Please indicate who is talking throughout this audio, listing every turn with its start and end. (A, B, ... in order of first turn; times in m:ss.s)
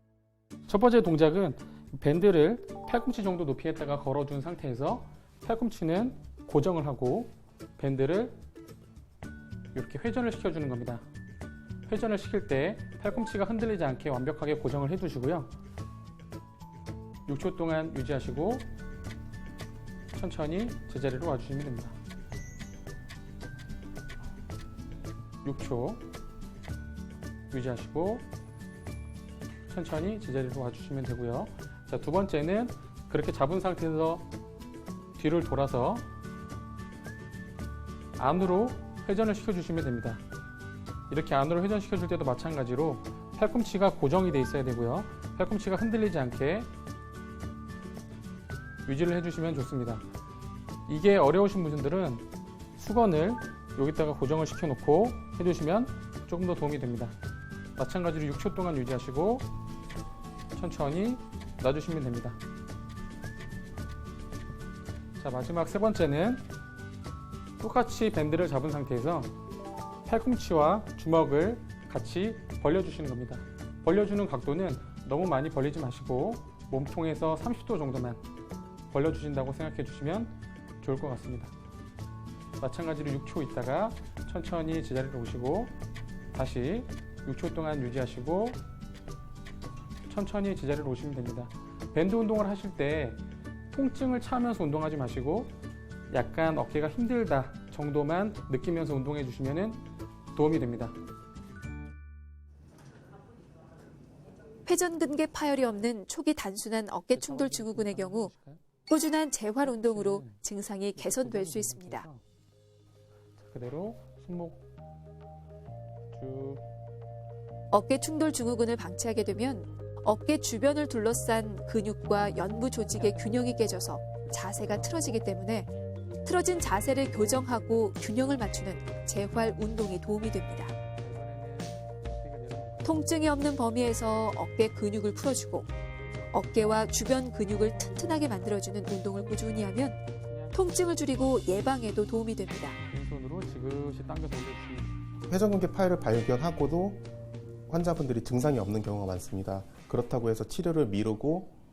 0:00.7-0:08.4 A
0:09.7-0:11.0 A
0:11.9-0:15.5 A
0:17.3-0:18.7 A
0:20.1-0:21.9 A
0:25.4-0:26.0 A
0:27.5-0:28.2 A
0:29.7-0:34.3 A
0:35.2-0:36.0 A
0:38.2-0:40.2 A
0:41.1-0:46.7 A
0:48.8-0:50.0 A
0:50.9-0:57.1 A
0:57.8-0:59.5 A
1:00.6-1:02.4 A
1:05.2-1:06.4 A
1:07.6-1:09.3 A
1:10.0-1:18.2 A
1:18.9-1:21.5 A
1:22.6-1:25.7 A
1:26.3-1:28.6 A
1:30.1-1:33.2 A
1:33.7-1:35.5 A
1:36.1-1:39.8 A
1:40.3-1:41.0 A
1:44.6-1:48.3 B
1:47.1-1:48.6 A
1:48.9-1:52.1 B
1:49.6-1:50.4 A
1:50.9-1:52.2 A
1:53.4-1:54.6 A
1:56.1-1:56.6 A
1:57.7-2:05.7 B
2:02.8-2:03.6 A
2:04.3-2:05.0 A
2:06.2-2:10.7 B
2:11.0-2:13.1 A
2:12.8-2:15.7 B
2:16.3-2:20.0 B
2:19.2-2:21.6 A
2:20.5-2:22.8 B
2:22.9-2:25.0 A
2:25.3-2:27.0 C
2:27.7-2:31.5 C